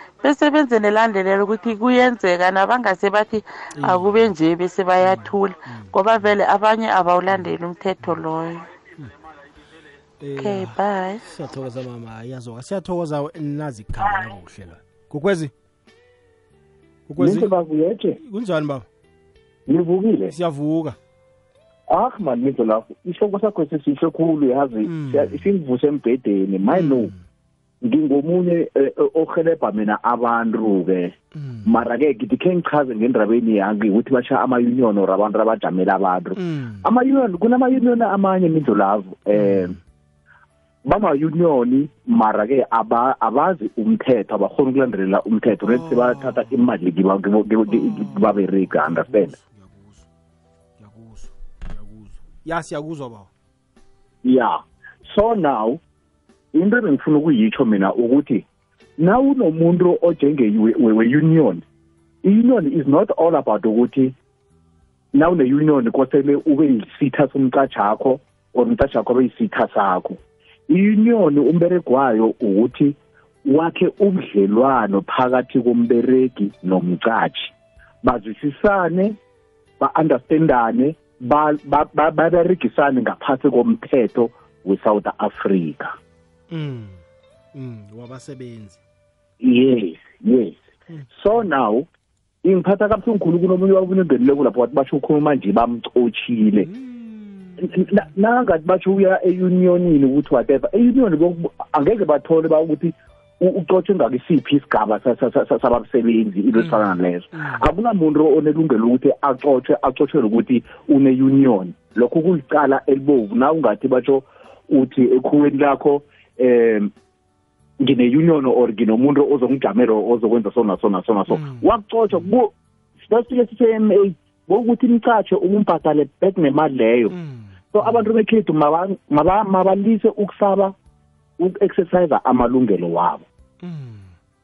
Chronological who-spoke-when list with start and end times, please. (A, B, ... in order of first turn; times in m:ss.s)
0:00.2-0:08.7 A
0:03.8-0:04.3 B
0:05.0-0:06.3 B
0:10.2-0:15.5 B
0:10.4-0:11.2 A
0:17.1-0:17.5 B
0:17.2-0:18.2 C
0:18.2-0:18.8 B
0:19.7-0:20.3 C
0:20.3-0:21.0 B
0:21.9-0:27.1 C
0:24.8-0:25.5 B
0:26.7-0:27.2 B
0:27.8-0:31.1 C
0:31.3-0:31.8 B
0:31.7-0:39.8 C
0:36.4-0:36.9 B
0:39.4-0:39.8 B
0:40.8-0:49.3 C
0:45.6-0:46.5 B
0:47.7-0:50.1 B
0:50.8-0:53.3 B
0:54.2-0:55.8 C
0:56.5-0:58.4 C
0:59.0-1:01.6 C
1:02.2-1:04.1 C
1:05.1-1:19.1 C
1:19.8-1:25.9 C
1:26.5-1:27.0 B
1:27.5-1:28.8 B
1:29.4-1:31.9 C
1:32.4-1:36.7 C
1:36.6-1:38.0 B
1:37.6-1:56.9 C
1:46.6-1:47.7 B
1:57.8-2:02.5 C
2:01.3-2:02.2 B
2:03.0-2:07.1 C
2:07.1-2:08.1 B
2:07.7-2:10.7 C
2:11.4-2:13.2 C
2:13.6-2:14.1 B